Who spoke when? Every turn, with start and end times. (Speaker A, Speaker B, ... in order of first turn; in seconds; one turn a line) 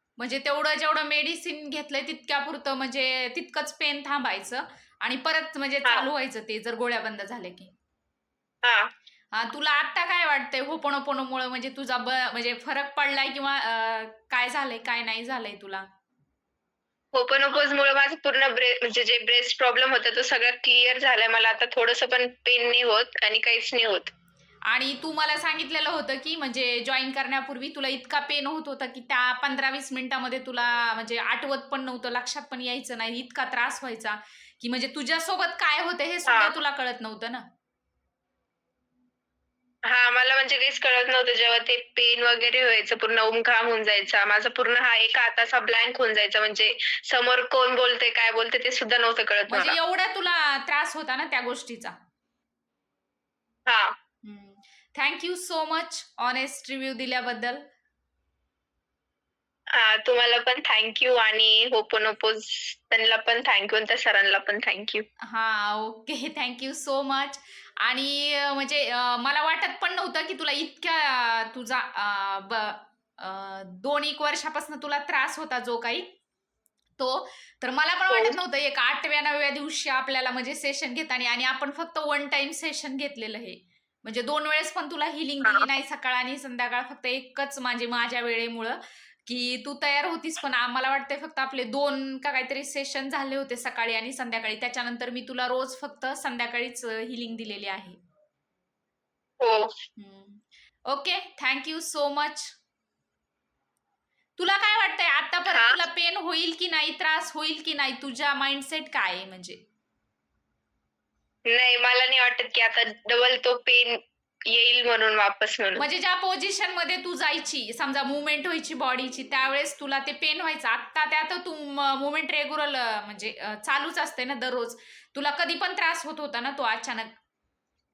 Speaker A: 0.2-7.7
Speaker B: 8.6-8.9
Speaker A: 9.3-15.9
Speaker B: 17.1-24.1
Speaker A: 24.7-37.5
Speaker B: 36.3-36.5
Speaker B: 39.9-49.8
Speaker A: 49.5-52.0
Speaker B: 53.7-53.9
Speaker A: 54.2-57.7
Speaker B: 59.7-65.0
Speaker A: 65.2-76.1
Speaker A: 77.0-98.0
Speaker B: 78.1-78.4
Speaker B: 99.4-99.7
Speaker A: 100.0-102.5
Speaker A: 104.4-109.6
Speaker B: 105.5-105.8
Speaker B: 111.5-115.8
Speaker A: 115.8-127.1